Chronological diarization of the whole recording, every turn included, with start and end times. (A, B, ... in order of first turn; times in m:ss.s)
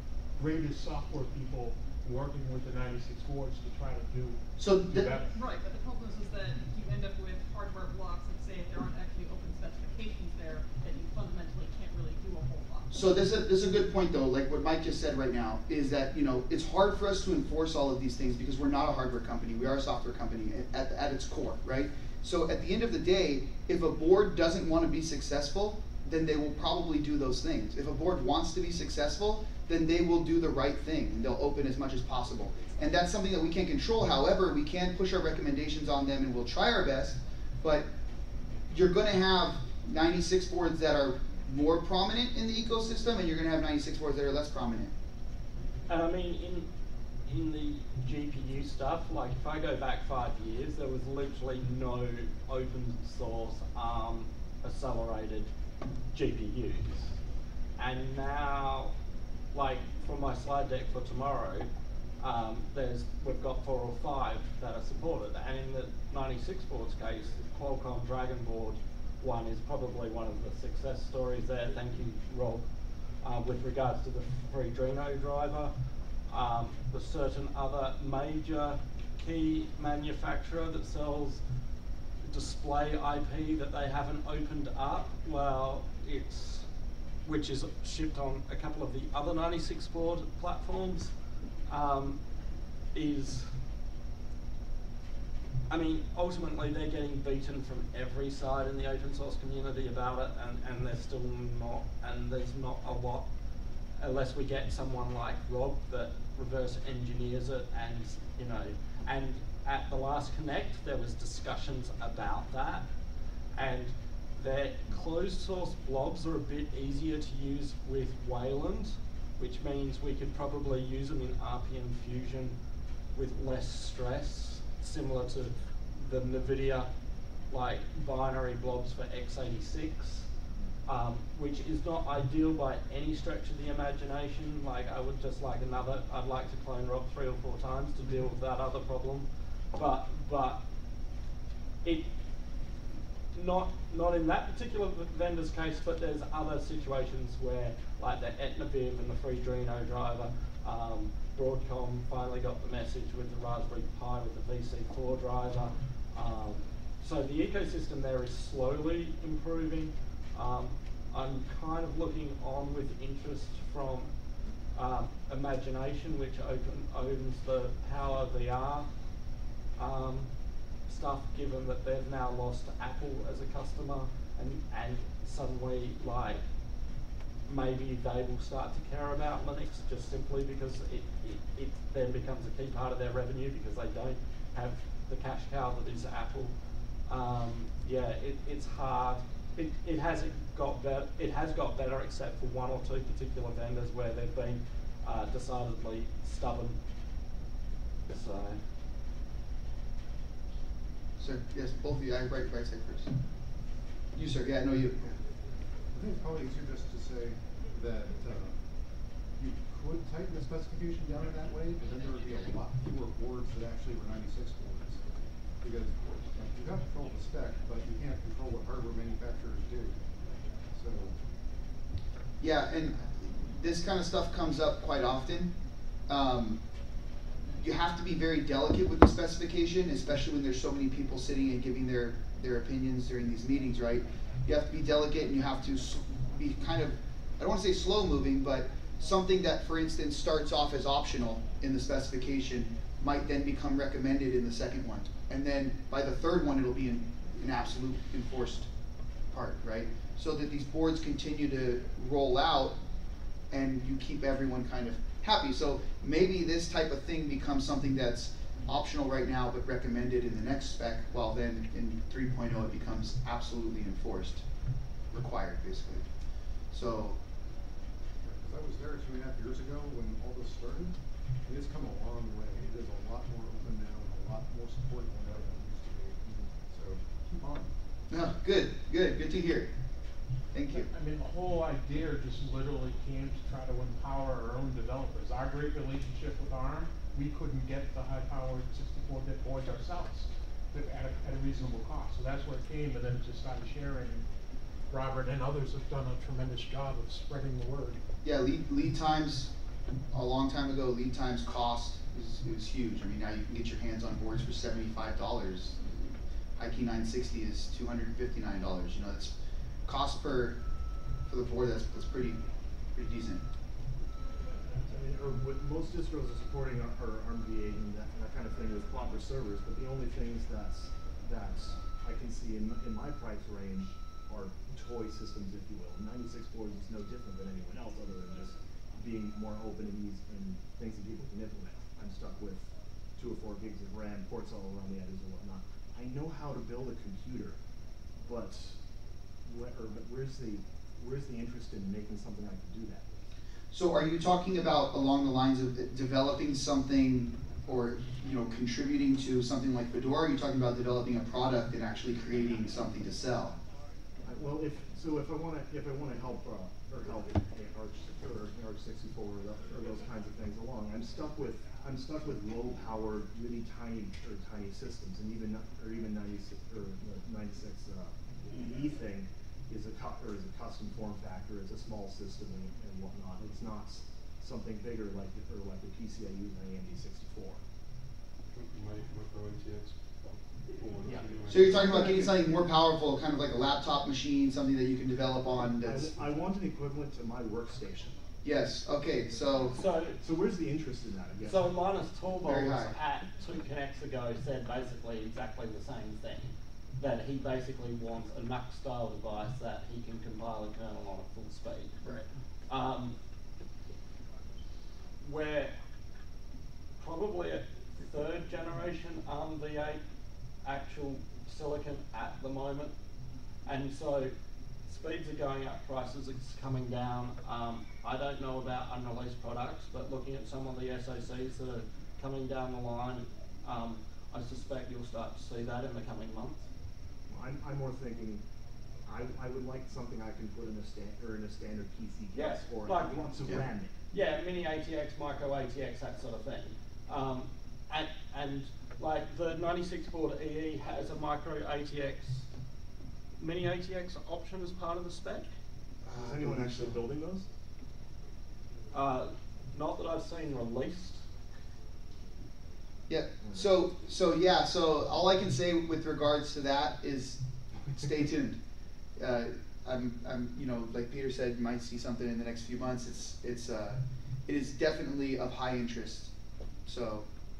0:00.4-0:05.4 A
0:04.6-0:05.1 B
0:05.3-0:12.9 C
0:12.9-0:37.9 B
0:38.7-0:44.9 B
0:45.9-0:46.7 D
0:47.2-0:55.5 D
0:56.1-0:57.2 D
0:57.8-0:58.9 D
0:59.5-1:01.7 D
1:02.2-1:12.7 D
1:13.2-1:15.7 D
1:16.3-1:21.4 D
1:22.2-1:26.6 D
1:27.2-1:31.1 D
1:31.7-1:32.2 D
1:32.9-1:33.6 D
1:35.7-1:43.3 D
1:44.0-1:52.9 D
1:53.5-2:02.6 D
2:03.1-2:06.9 D
2:07.5-2:10.3 D
2:10.8-2:20.6 D
2:21.8-2:22.1 D
2:23.3-2:44.1 D
2:44.7-2:48.9 D
2:49.8-2:50.3 D
2:50.8-2:56.4 D
2:57.4-3:06.5 D
3:07.1-3:16.8 D
3:18.1-3:18.6 D
3:21.2-3:23.1 B
3:24.1-3:25.0 B
3:25.9-3:28.6 E
3:29.3-3:40.0 E
3:40.7-3:41.2 E
3:42.4-3:45.6 B
3:46.1-3:46.6 B
3:47.6-4:08.7 B
4:09.3-4:12.8 B
4:13.5-4:24.4 B
4:25.1-4:26.1 B
4:26.7-4:27.2 B
4:28.2-4:37.6 E
4:37.5-4:39.7 B
4:40.5-4:40.9 B
4:40.7-4:54.2 A
4:54.9-4:58.0 A
4:58.2-4:59.5 B
5:00.1-5:09.3 B
5:09.9-5:10.6 B
5:11.3-5:12.4 B
5:12.9-5:13.4 B
5:14.8-5:37.6 F
5:38.2-5:38.8 F
5:39.4-5:43.2 F
5:43.7-5:53.6 B
5:54.2-6:17.6 F
6:18.5-6:22.2 G
6:21.0-6:22.3 F
6:21.5-6:26.3 B
6:25.8-6:28.2 F
6:28.4-6:29.8 B
6:29.7-6:30.2 D
6:30.2-6:31.7 F
6:31.4-6:42.0 D
6:32.4-6:32.9 B
6:42.7-6:43.2 D
6:45.2-6:45.7 D
6:47.0-6:50.0 D
6:50.6-6:52.9 D
6:53.6-6:54.3 D
6:54.9-7:06.7 D
7:07.3-7:08.4 F
7:09.0-7:13.9 F
7:12.3-7:13.6 D
7:14.1-7:22.5 D
7:23.4-7:25.5 D
7:26.0-7:27.5 F
7:26.1-7:27.0 B
7:28.9-7:31.2 D
7:33.1-7:38.6 B
7:39.2-7:46.3 B
7:46.8-7:47.3 B